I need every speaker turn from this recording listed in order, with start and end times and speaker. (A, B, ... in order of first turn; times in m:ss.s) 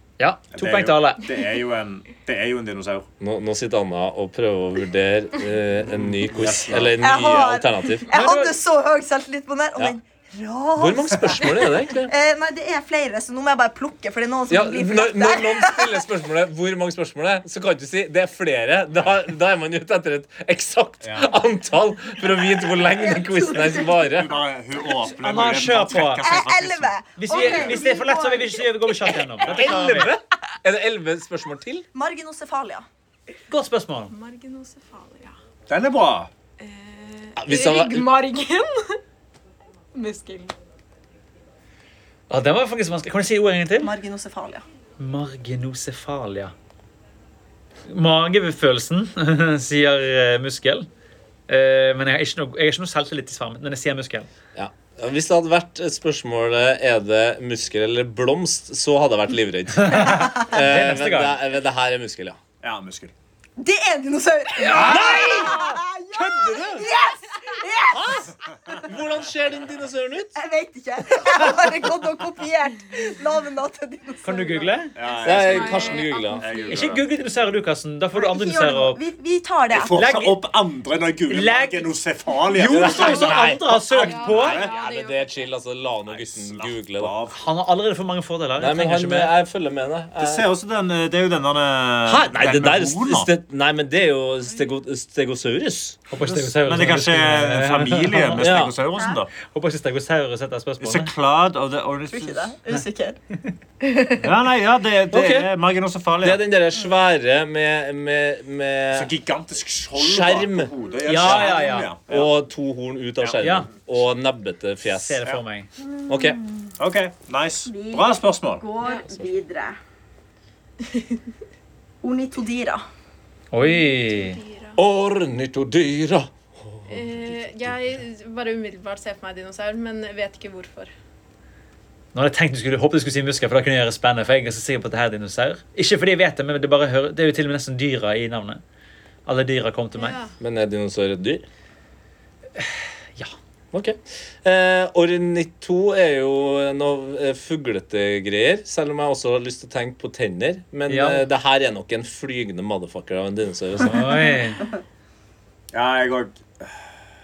0:00.2-0:01.2 A
0:00.5-0:03.1 B
0:03.2-0:08.1 C
0:05.9-0:07.0 B
0:07.0-0:16.0 D
0:08.1-0:08.5 A
0:10.8-0:12.1 C
0:14.5-0:24.4 C
0:21.0-0:21.3 B
0:22.8-0:24.1 D
0:24.1-0:27.8 B
0:25.1-0:26.2 A
0:26.2-0:29.2 D
0:27.2-0:30.1 A
0:29.5-0:31.9 C
0:31.9-0:32.8 D
0:33.5-0:34.1 A
0:34.1-0:35.3 E
0:35.7-0:36.3 B
0:36.6-0:39.0 E
0:37.4-0:38.1 C
0:39.9-0:40.5 E
0:42.3-0:43.9 A
0:43.8-0:44.6 D
0:45.0-0:46.5 A
0:47.9-0:50.9 A
0:51.5-0:54.3 A
0:54.5-1:02.4 C
0:59.8-1:01.4 A
1:02.6-1:03.1 B
1:03.6-1:08.3 D
1:04.7-1:05.0 A
1:04.7-1:06.8 C
1:07.9-1:10.3 C
1:10.4-1:14.7 D
1:14.2-1:14.9 A
1:14.9-1:17.0 B
1:15.0-1:16.8 E
1:15.2-1:16.4 C
1:16.7-1:19.0 A
1:18.1-1:20.0 D
1:19.7-1:23.5 B
1:19.9-1:20.4 A
1:21.3-1:21.9 A
1:22.5-1:24.6 A
1:22.7-1:27.1 C
1:24.0-1:25.5 E
1:24.2-1:24.8 B
1:26.1-1:27.4 B
1:27.3-1:29.3 A
1:28.6-1:30.4 C
1:30.2-1:33.3 B
1:32.0-1:36.0 C
1:36.1-1:38.4 A
1:36.2-1:39.3 B
1:38.4-1:38.7 C
1:39.5-1:41.1 A
1:40.8-1:42.3 B
1:42.1-1:43.2 D
1:43.8-1:44.2 D
1:44.2-1:46.4 B
1:45.1-1:45.5 C
1:46.2-1:49.1 C
1:48.9-1:52.3 B
1:49.9-1:50.7 C
1:51.0-1:51.9 A
1:51.2-1:51.5 C
1:52.1-1:55.2 C
1:53.4-1:53.7 A
1:54.9-1:55.7 A
1:55.9-1:56.7 D
1:56.1-1:56.4 C
1:56.8-1:58.6 B
1:57.7-1:59.8 D
2:02.0-2:02.8 D
2:03.5-2:04.4 A
2:03.6-2:04.8 E
2:04.8-2:08.0 C
2:06.9-2:10.9 E
2:12.1-2:18.6 A
2:19.2-2:20.2 A
2:20.0-2:20.3 E
2:20.4-2:21.4 C
2:22.6-2:23.3 A
2:23.7-2:34.0 C
2:30.9-2:31.2 A
2:33.8-2:34.7 A
2:35.7-2:36.7 B